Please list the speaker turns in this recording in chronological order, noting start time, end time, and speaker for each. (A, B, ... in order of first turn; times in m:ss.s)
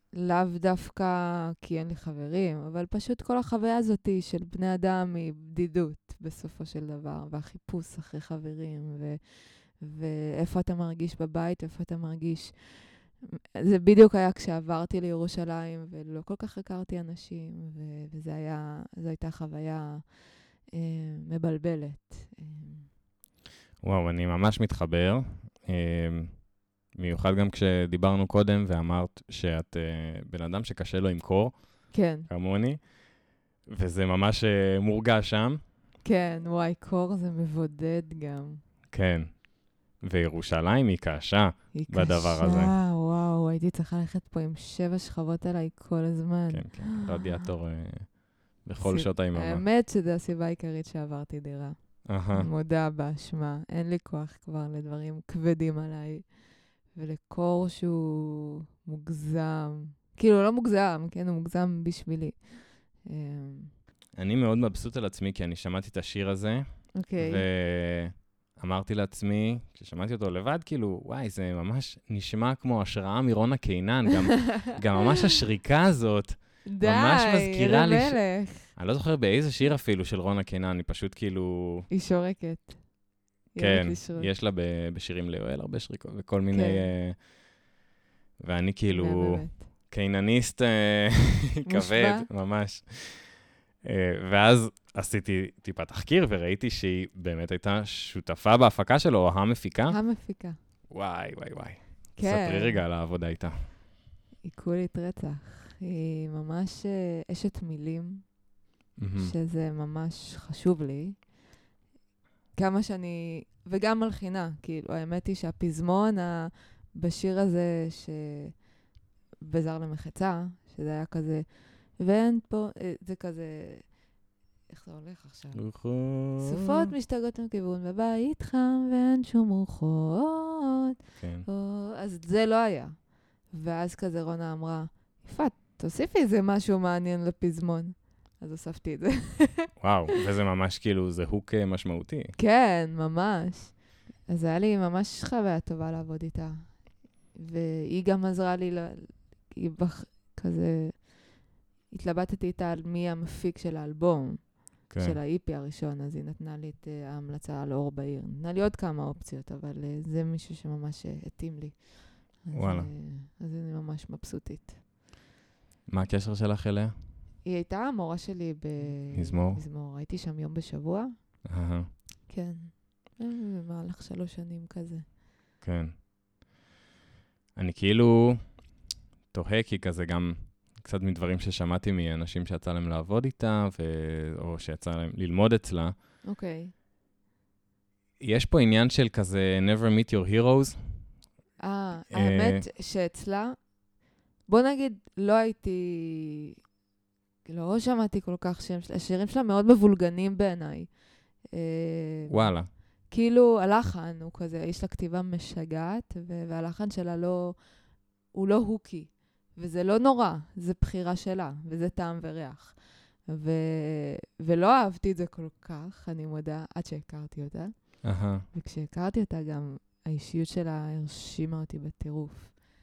0:00.1-0:22.9 A
0:23.8-0:35.6 B
0:31.9-0:32.3 A
0:36.0-0:38.6 A
0:38.9-0:42.7 B
0:41.7-0:47.5 A
0:46.5-0:49.6 B
0:48.8-1:03.7 A
0:52.1-0:52.5 B
1:04.2-1:21.9 B
1:07.0-1:07.4 A
1:16.7-1:18.7 A
1:21.9-1:22.9 A
1:23.5-1:24.3 A
1:23.6-1:27.3 B
1:26.5-1:26.8 A
1:28.4-1:40.0 B
1:28.9-1:29.6 A
1:31.7-1:32.3 A
1:39.9-1:40.6 A
1:40.9-1:43.6 B
1:42.2-1:42.8 A
1:44.4-1:48.4 A
1:49.0-1:49.3 B
1:49.2-1:51.3 A
1:52.6-1:58.6 A
1:59.4-2:03.9 A
2:04.7-2:05.8 A
2:05.5-2:06.9 B
2:06.4-2:10.9 A
2:11.2-2:11.5 B
2:11.4-2:19.7 A
2:19.8-2:22.4 B
2:22.4-2:44.8 A
2:34.9-2:35.2 B
2:42.5-2:42.9 B
2:45.9-2:46.9 B
2:47.5-2:51.4 A
2:49.1-2:49.6 B
2:51.5-2:51.9 B
2:52.3-2:55.1 A
2:55.6-2:55.9 B
2:57.6-2:58.7 B
2:59.3-3:06.0 B
3:06.3-3:06.7 A
3:08.2-3:11.1 B
3:11.6-3:13.7 A
3:12.1-3:12.6 B
3:14.5-3:16.5 A
3:17.5-3:22.6 A
3:22.3-3:22.7 B
3:23.1-3:27.7 A
3:28.3-3:42.7 A
3:38.0-3:38.4 B